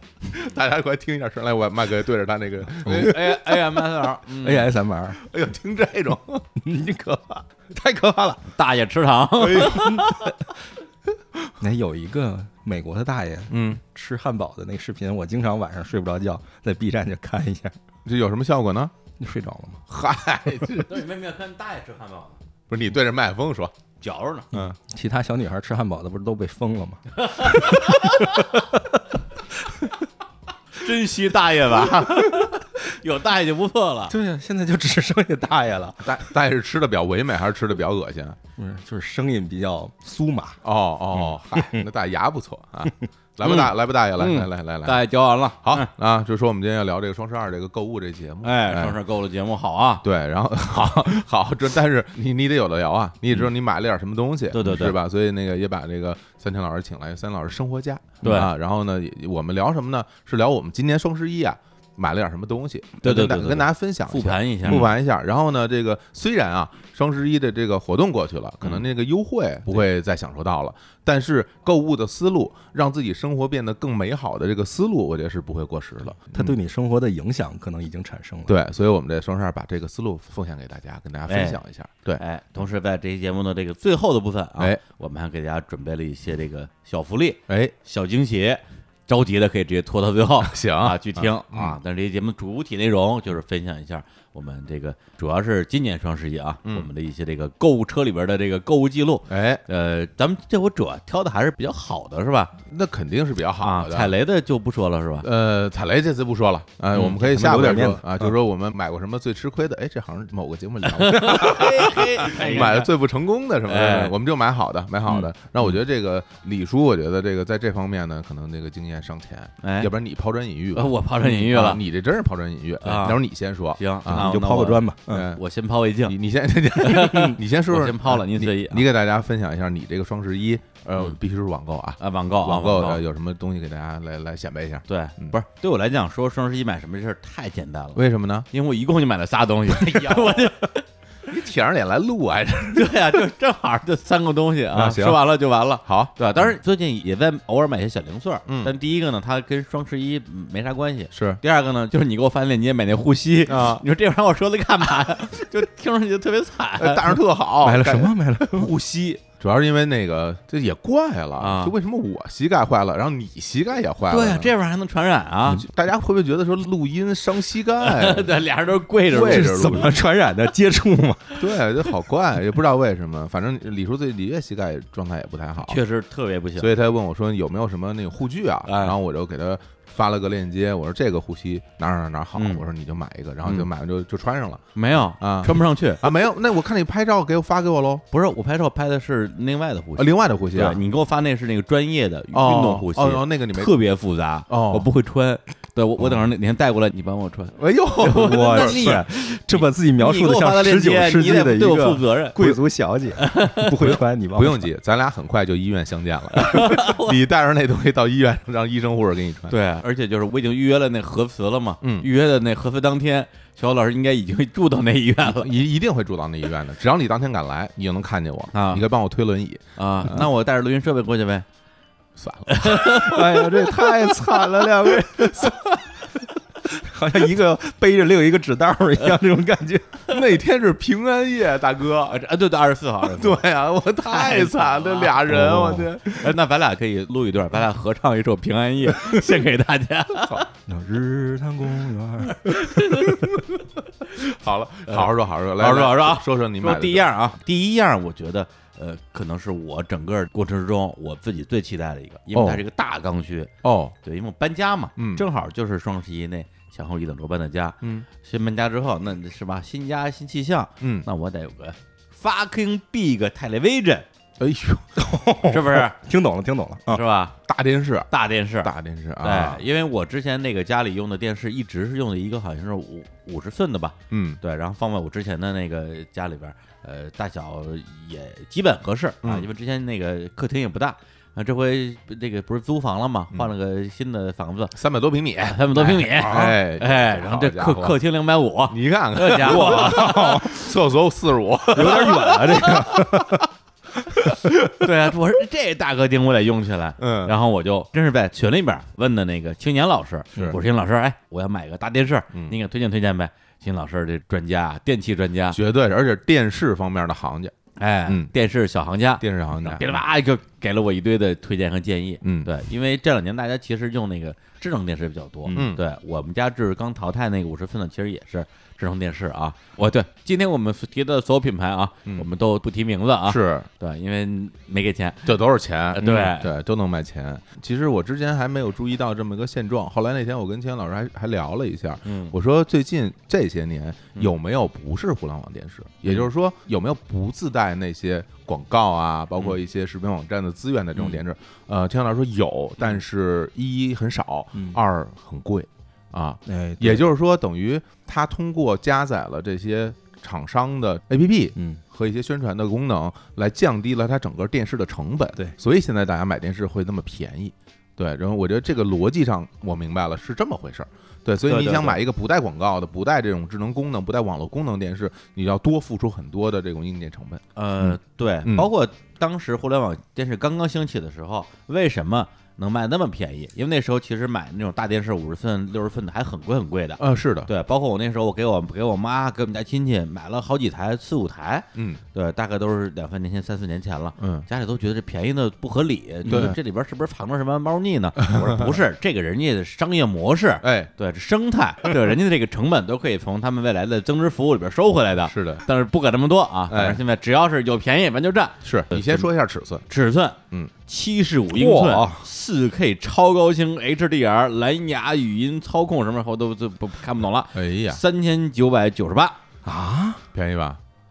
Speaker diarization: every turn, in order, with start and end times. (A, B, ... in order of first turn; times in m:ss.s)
0:00.3-0:03.4 A
0:02.8-0:04.7 B
0:04.4-0:05.2 C
0:05.2-0:06.5 A
0:06.6-0:08.4 C
0:08.5-0:10.3 B
0:09.4-0:10.1 A
0:09.8-0:10.1 C
0:11.6-0:17.8 C
0:13.5-0:13.8 A
0:18.0-0:18.9 A
0:19.2-0:19.8 C
0:19.9-0:20.9 A
0:20.8-0:22.4 B
0:22.7-0:23.7 A
0:24.0-0:24.5 B
0:24.6-0:29.0 C
0:27.2-0:28.4 B
0:30.8-0:34.2 B
0:34.1-0:36.3 C
0:36.0-0:38.4 A
0:38.6-0:40.6 C
0:40.6-0:45.0 A
0:41.5-0:41.8 C
0:43.4-0:45.9 B
0:45.6-0:49.0 A
0:48.4-0:50.0 B
0:50.0-1:16.6 A
0:54.5-0:55.0 B
0:58.2-0:58.5 B
1:03.0-1:04.9 B
1:16.2-1:18.6 C
1:18.5-1:22.2 A
1:21.3-1:21.6 B
1:22.2-1:42.6 B
1:27.5-1:27.7 A
1:30.4-1:31.8 A
1:39.3-1:39.6 A
1:42.7-1:44.1 A
1:43.6-1:45.3 B
1:45.2-2:04.3 A
1:47.0-1:48.3 C
1:50.9-1:52.9 B
1:53.7-1:54.1 B
1:59.6-1:59.9 B
2:00.8-2:01.8 B
2:02.8-2:03.2 B
2:03.8-2:06.2 B
2:04.1-2:05.3 C
2:05.1-2:05.4 A
2:06.1-2:15.4 A
2:06.8-2:08.8 B
2:12.0-2:13.0 B
2:14.9-2:20.8 B
2:18.0-2:18.5 A
2:19.7-2:20.5 A
2:21.3-2:23.2 A
2:22.7-2:37.2 B
2:24.7-2:25.2 A
2:25.9-2:26.5 A
2:28.5-2:28.7 A
2:31.1-2:31.4 A
2:33.5-2:33.8 A
2:36.8-2:38.2 A
2:37.6-2:38.7 C
2:38.5-2:39.2 B
2:39.4-2:44.5 A
2:41.4-2:41.7 B
2:44.1-2:45.6 B
2:45.5-2:48.4 A
2:47.8-2:49.8 B
2:49.1-2:49.9 A
2:49.1-2:51.4 C
2:51.4-2:55.8 A
2:55.6-2:56.7 B
2:56.6-3:04.6 A
2:58.7-2:59.0 B
3:02.4-3:02.7 B
3:04.8-3:06.1 B
3:05.2-3:08.0 A
3:08.1-3:22.5 B
3:10.0-3:10.8 A
3:12.3-3:13.7 A
3:14.5-3:14.9 A
3:17.6-3:19.0 A
3:18.0-3:24.7 C
3:23.2-3:23.8 B
3:24.3-3:29.6 A
3:26.4-3:27.2 B
3:29.5-3:35.5 B
3:31.8-3:32.1 A
3:35.2-3:40.3 A
3:38.5-3:38.8 B
3:39.8-3:41.5 B
3:42.2-3:45.7 A
3:42.5-3:45.5 B
3:43.0-3:45.0 C
3:46.7-3:50.0 C
3:50.1-3:52.2 A
3:52.1-3:55.5 B
3:53.1-3:56.3 A
3:55.3-3:56.0 C
3:56.0-4:00.5 B
4:00.7-4:03.2 C
4:02.4-4:03.4 B
4:04.2-4:07.1 A
4:04.9-4:13.5 B
4:12.3-4:12.6 A
4:13.6-4:14.0 A
4:14.0-4:24.1 B
4:15.0-4:15.2 A
4:17.8-4:18.1 A
4:20.8-4:21.1 A
4:24.4-4:25.0 A
4:25.0-4:27.0 C
4:25.5-4:26.0 B
4:26.9-4:27.4 B
4:27.5-4:28.1 A
4:28.1-4:44.8 B
4:28.6-4:29.6 A
4:34.1-4:34.4 A
4:44.8-4:48.0 A
4:45.5-4:50.2 B
4:48.7-4:53.1 A
4:49.4-4:50.7 C
4:51.7-4:53.4 C
4:51.8-4:53.0 B
4:54.5-4:54.8 A
4:54.8-5:05.6 B
4:57.0-4:57.3 A
5:00.4-5:00.6 A
5:05.5-5:07.5 A
5:07.8-5:25.3 B
5:08.1-5:08.3 A
5:09.2-5:10.0 A
5:12.2-5:12.5 A
5:15.5-5:15.8 A
5:23.2-5:23.7 A
5:25.3-6:08.7 A
5:25.9-5:26.5 B
5:32.0-5:32.3 B
5:44.5-5:44.8 C
5:46.5-5:47.1 C
5:51.6-5:51.8 C
6:01.5-6:02.0 B
6:07.6-6:39.3 B
6:17.0-6:17.5 A
6:21.8-6:22.0 A
6:24.2-6:24.5 A
6:26.3-6:26.6 A
6:28.2-6:28.8 A
6:30.6-6:30.9 A
6:35.3-6:35.6 A
6:36.7-6:37.0 A
6:38.6-6:39.8 A
6:39.9-6:49.4 B
6:41.5-6:42.3 C
6:47.6-6:48.0 A
6:49.6-6:50.2 C
6:50.3-6:50.8 A